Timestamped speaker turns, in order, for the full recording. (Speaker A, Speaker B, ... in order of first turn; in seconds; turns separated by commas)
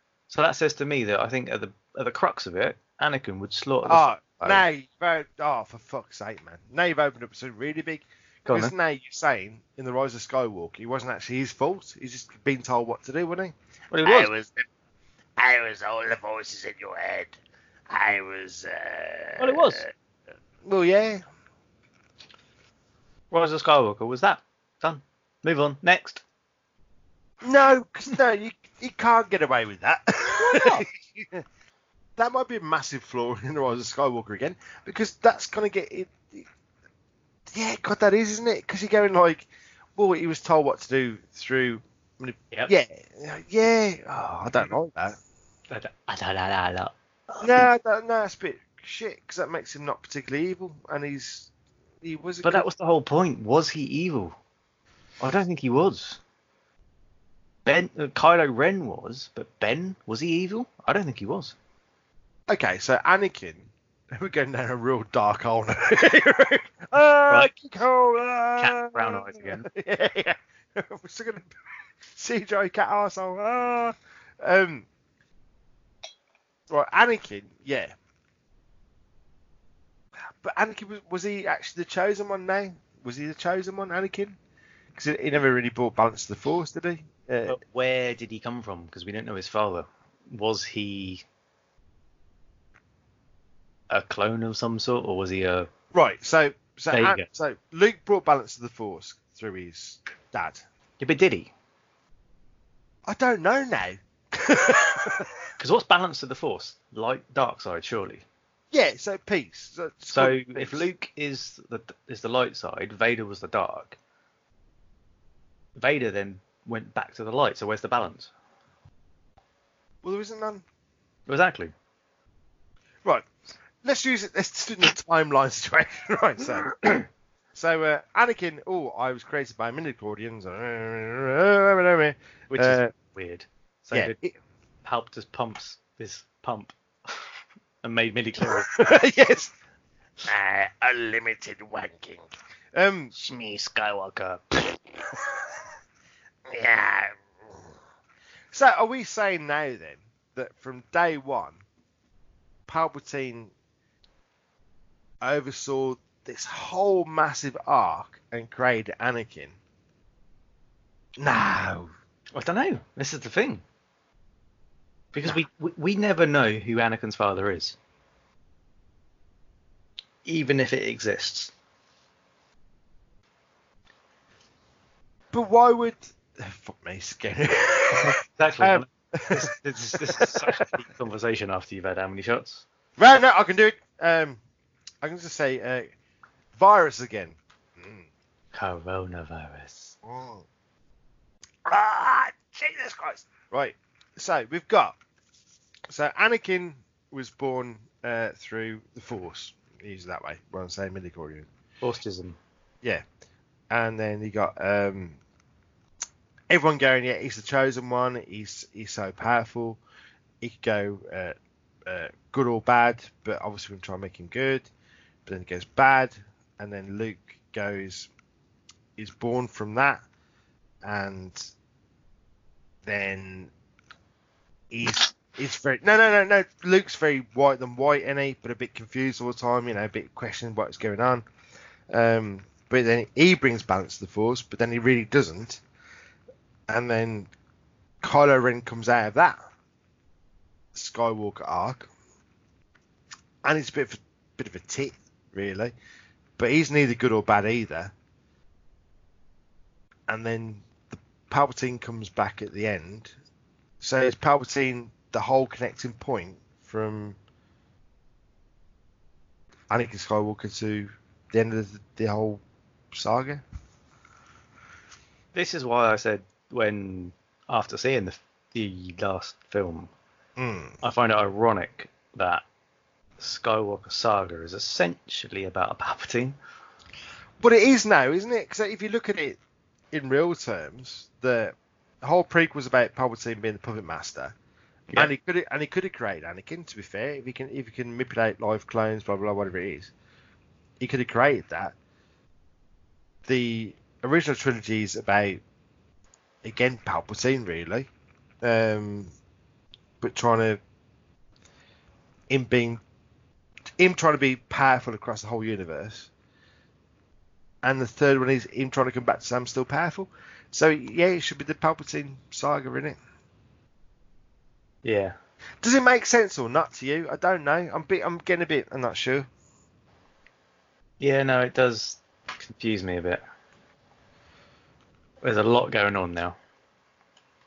Speaker A: 0.3-4.6, Speaker B: 3.8-13.5, Speaker A: 8.5-8.7, Speaker A: 13.9-14.3, Speaker B: 14.0-14.6, Speaker C: 15.4-17.2, Speaker C: 17.9-19.3, Speaker A: 19.4-19.9, Speaker B: 20.6-21.2, Speaker A: 23.3-26.2, Speaker B: 27.4-31.4, Speaker A: 30.4-30.9, Speaker B: 32.2-36.5, Speaker B: 37.5-45.2, Speaker A: 45.7-47.7, Speaker B: 47.4-51.5, Speaker B: 52.0-52.6, Speaker A: 52.4-54.4, Speaker A: 55.2-56.2, Speaker A: 57.6-61.5, Speaker B: 62.5-71.5, Speaker A: 68.6-69.7, Speaker B: 72.1-74.8, Speaker B: 76.7-77.9, Speaker B: 80.4-84.4, Speaker B: 84.9-87.6, Speaker A: 87.5-91.2, Speaker A: 93.9-95.7, Speaker B: 95.9-100.6, Speaker A: 96.9-97.2, Speaker A: 101.0-101.5, Speaker B: 103.0-105.3, Speaker A: 105.6-108.2, Speaker B: 108.7-110.9, Speaker A: 110.1-114.0, Speaker A: 115.8-118.3, Speaker B: 120.0-120.6, Speaker A: 121.3-121.7, Speaker B: 123.8-126.8, Speaker B: 127.5-132.9, Speaker A: 132.5-134.2, Speaker B: 133.9-134.3, Speaker A: 134.8-137.2, Speaker A: 137.8-138.7, Speaker B: 138.4-139.5, Speaker B: 140.2-143.1, Speaker A: 143.1-144.8, Speaker B: 146.5-147.5, Speaker B: 148.5-151.6, Speaker B: 152.7-153.5, Speaker B: 155.2-159.6, Speaker B: 161.2-161.9, Speaker A: 162.3-163.6, Speaker A: 165.1-167.8, Speaker A: 170.2-171.5, Speaker B: 175.3-180.7, Speaker A: 177.9-182.6, Speaker B: 183.0-184.4, Speaker B: 185.0-185.9, Speaker B: 186.5-188.0, Speaker A: 188.5-189.9, Speaker B: 190.0-190.4, Speaker B: 191.7-195.0, Speaker B: 195.9-201.5, Speaker A: 201.8-202.4, Speaker B: 203.7-205.2, Speaker B: 206.5-209.8, Speaker B: 210.4-214.7, Speaker B: 215.2-218.1, Speaker B: 219.0-220.0, Speaker B: 220.8-221.5, Speaker B: 222.8-223.5, Speaker B: 224.7-231.2, Speaker B: 231.9-235.6, Speaker B: 236.7-237.3, Speaker B: 238.0-239.4, Speaker B: 240.7-241.9, Speaker B: 243.4-245.7, Speaker B: 246.4-247.9, Speaker B: 250.1-253.1, Speaker B: 253.8-257.2, Speaker B: 259.7-262.4, Speaker B: 262.9-263.4, Speaker A: 265.3-269.9, Speaker B: 270.4-270.8, Speaker A: 270.8-272.4, Speaker A: 273.2-276.4, Speaker B: 277.4-279.4, Speaker B: 279.9-284.3, Speaker B: 284.9-289.9, Speaker B: 290.8-291.7, Speaker B: 293.2-295.4, Speaker B: 296.4-297.9, Speaker B: 298.4-299.1, Speaker B: 300.0-300.6, Speaker B: 302.3-302.8, Speaker B: 303.8-306.1, Speaker B: 307.6-313.0, Speaker A: 314.8-315.1, Speaker B: 315.6-319.3, Speaker A: 321.0-323.2, Speaker A: 325.2-326.4